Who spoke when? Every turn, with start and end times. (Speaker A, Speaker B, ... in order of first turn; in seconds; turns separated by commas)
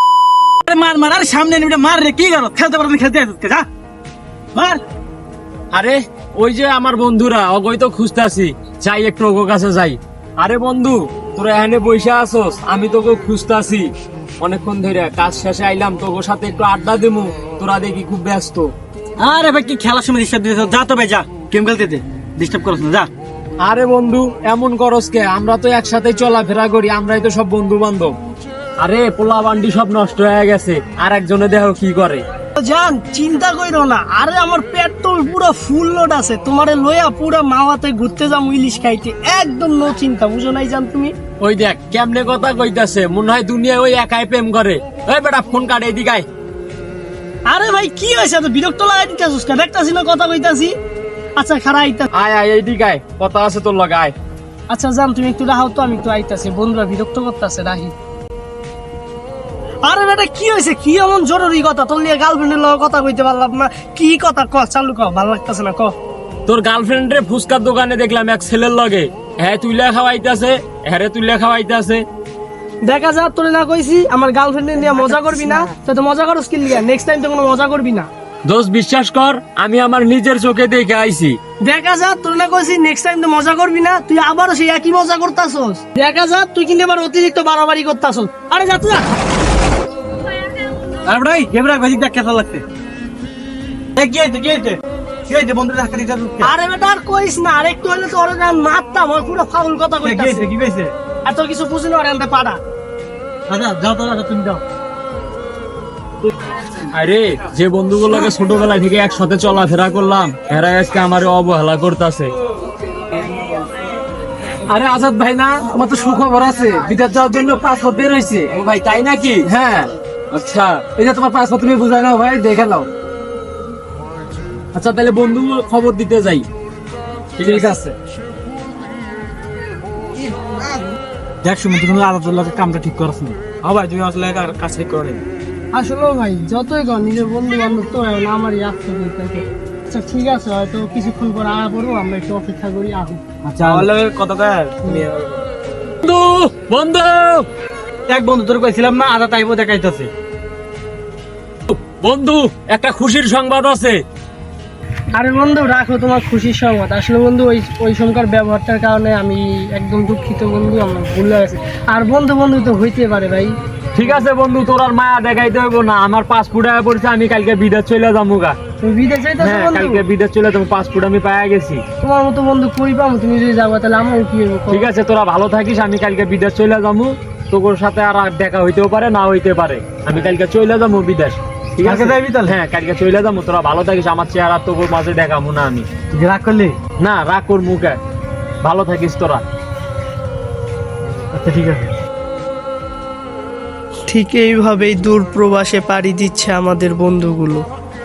Speaker A: 0.7-3.7, Speaker A: 4.5-4.8, Speaker B: 5.7-13.9, Speaker B: 14.4-18.7, Speaker A: 19.2-23.1, Speaker B: 23.6-28.1, Speaker B: 28.8-32.2, Speaker C: 32.6-41.1, Speaker B: 41.4-46.2, Speaker C: 47.5-50.7, Speaker C: 51.4-52.1, Speaker B: 52.1-54.1, Speaker C: 54.7-57.9, Speaker C: 59.8-65.9, Speaker B: 66.5-72.0, Speaker C: 72.9-78.1, Speaker B: 78.5-81.4, Speaker C: 81.6-89.0, Speaker A: 91.1-92.6, Speaker A: 94.0-96.5, Speaker C: 96.4-100.5, Speaker A: 100.0-100.9, Speaker C: 101.2-102.6, Speaker A: 103.5-104.6, Speaker B: 106.9-112.3, Speaker B: 114.7-119.6, Speaker A: 115.9-116.4, Speaker B: 120.3-121.0, Speaker A: 121.0-122.9, Speaker B: 124.7-126.5, Speaker B: 127.4-127.9, Speaker A: 131.4-135.2, Speaker C: 135.7-143.2, Speaker A: 143.4-143.9, Speaker B: 143.7-145.3, Speaker B: 146.0-147.4, Speaker A: 148.1-150.1, Speaker B: 151.7-154.0, Speaker C: 155.1-163.5, Speaker B: 163.9-168.5, Speaker C: 168.8-170.0, Speaker B: 169.4-171.8, Speaker C: 172.0-174.9, Speaker B: 174.7-185.8, Speaker A: 181.8-182.5, Speaker A: 186.1-186.8, Speaker B: 187.0-188.0, Speaker B: 188.6-189.4, Speaker A: 191.1-191.9, Speaker C: 194.1-197.6